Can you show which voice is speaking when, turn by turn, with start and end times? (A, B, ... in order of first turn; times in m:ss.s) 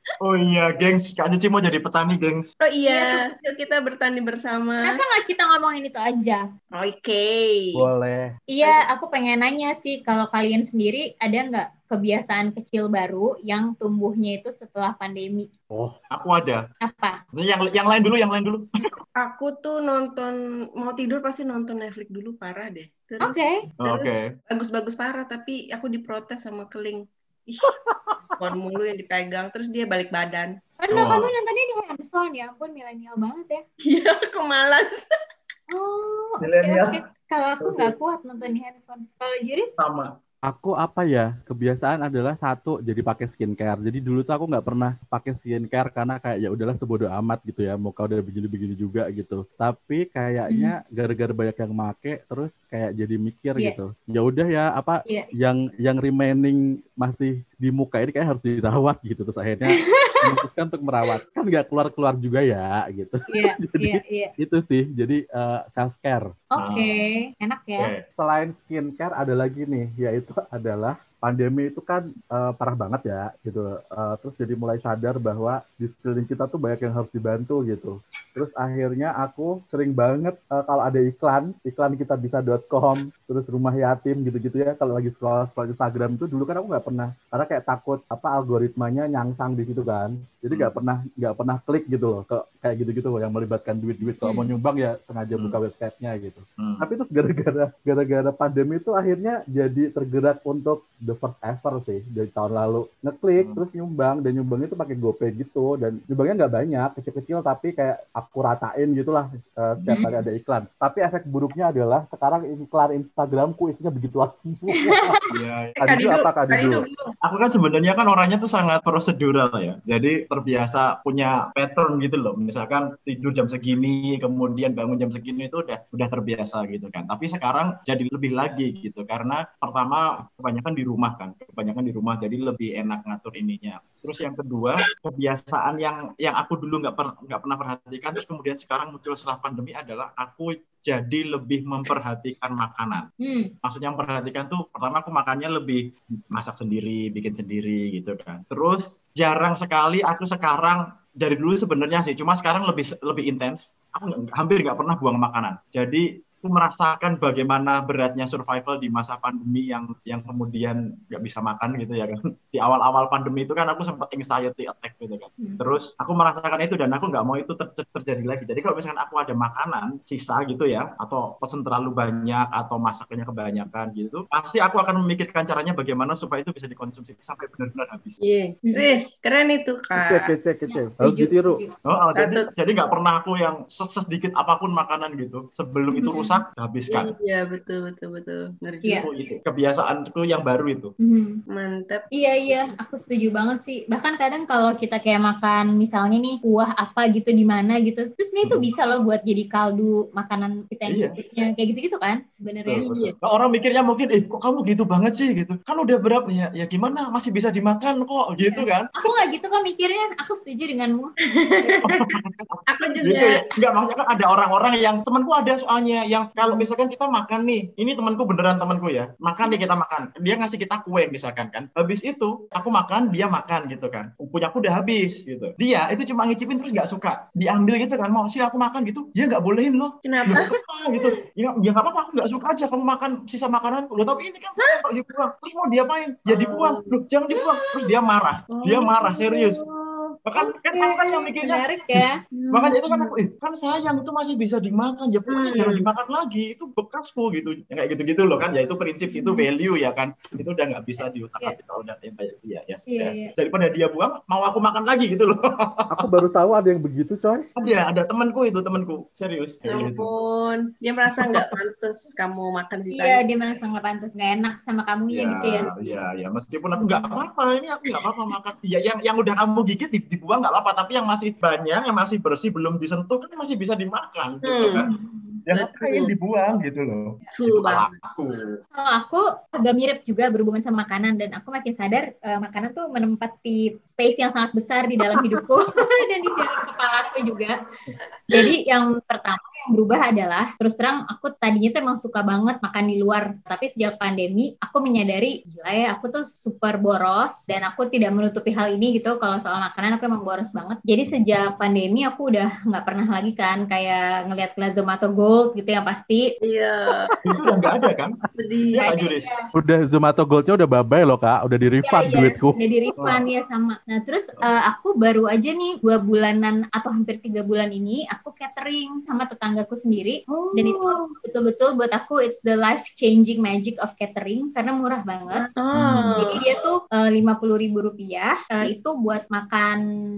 0:00.2-0:02.5 A
0:02.6-0:04.9 B
0:02.9-0:03.3 C
0:04.8-0:06.4 C
0:06.8-0:07.9 B
0:07.8-0:08.4 D
0:08.5-0:15.5 C
0:15.7-0:16.0 D
0:16.1-0:16.6 A
0:16.8-0:17.2 C
0:17.3-0:18.9 A
0:19.2-0:27.7 B
0:23.2-0:23.6 C
0:23.8-0:24.2 A
0:27.6-0:28.4 D
0:28.4-0:30.6 B
0:30.8-0:33.6 C
0:30.9-0:31.3 A
0:33.8-0:35.1 B
0:35.7-0:39.7 C
0:36.4-0:37.0 A
0:37.6-0:37.9 A
0:39.8-0:40.1 A
0:40.5-1:06.3 D
0:59.8-1:00.4 C
1:03.3-1:04.3 C
1:06.5-1:07.9 C
1:06.6-1:07.0 A
1:07.8-1:08.0 A
1:08.2-1:55.2 D
1:34.2-1:34.5 C
1:36.6-1:36.9 A
1:49.8-1:50.2 A
1:54.8-1:55.2 C
1:55.3-1:55.8 A
1:55.8-1:56.9 D
1:55.8-1:57.1 B
1:57.2-2:23.1 A
2:23.2-2:23.5 C
2:23.6-2:58.2 A
2:58.2-3:00.3 B
3:00.0-3:01.6 D
3:00.7-3:01.7 C
3:01.9-3:07.1 A
3:02.2-3:02.5 B
3:06.0-3:06.4 C
3:06.9-3:09.1 B
3:08.8-3:09.1 C
3:09.0-3:10.9 A
3:11.0-3:11.4 C
3:11.5-3:12.0 B
3:12.2-3:22.9 C
3:18.4-3:18.7 A
3:20.9-3:21.2 A
3:22.7-3:28.9 A
3:22.8-3:23.1 B
3:28.4-3:31.9 C
3:31.5-3:32.0 B
3:31.9-3:59.6 A
3:32.7-3:33.4 B
3:50.0-3:50.5 B
3:56.3-3:56.8 B
3:58.5-4:00.0 B
4:00.3-4:16.1 A
4:00.4-4:02.2 C
4:02.4-4:03.1 B
4:05.3-4:05.8 B
4:09.1-4:09.4 C
4:12.9-4:13.3 C
4:15.9-4:17.5 D
4:17.6-4:20.1 A
4:19.7-4:23.2 B
4:22.9-4:26.0 C
4:25.1-4:34.9 A
4:26.8-4:27.2 C
4:34.4-4:34.8 B
4:34.7-4:35.4 C
4:35.5-4:38.5 A
4:35.5-4:36.1 B
4:37.3-4:37.9 B
4:38.8-4:47.5 C
4:48.3-5:06.2 C
5:06.4-5:07.1 B
5:07.2-5:08.2 A
5:08.3-5:08.7 B
5:08.7-5:09.3 A
5:08.8-5:09.4 C
5:09.6-5:12.6 D
5:11.8-5:25.5 C
5:20.3-5:21.1 B
5:25.4-5:26.4 B
5:25.8-5:26.4 A
5:26.2-5:29.8 C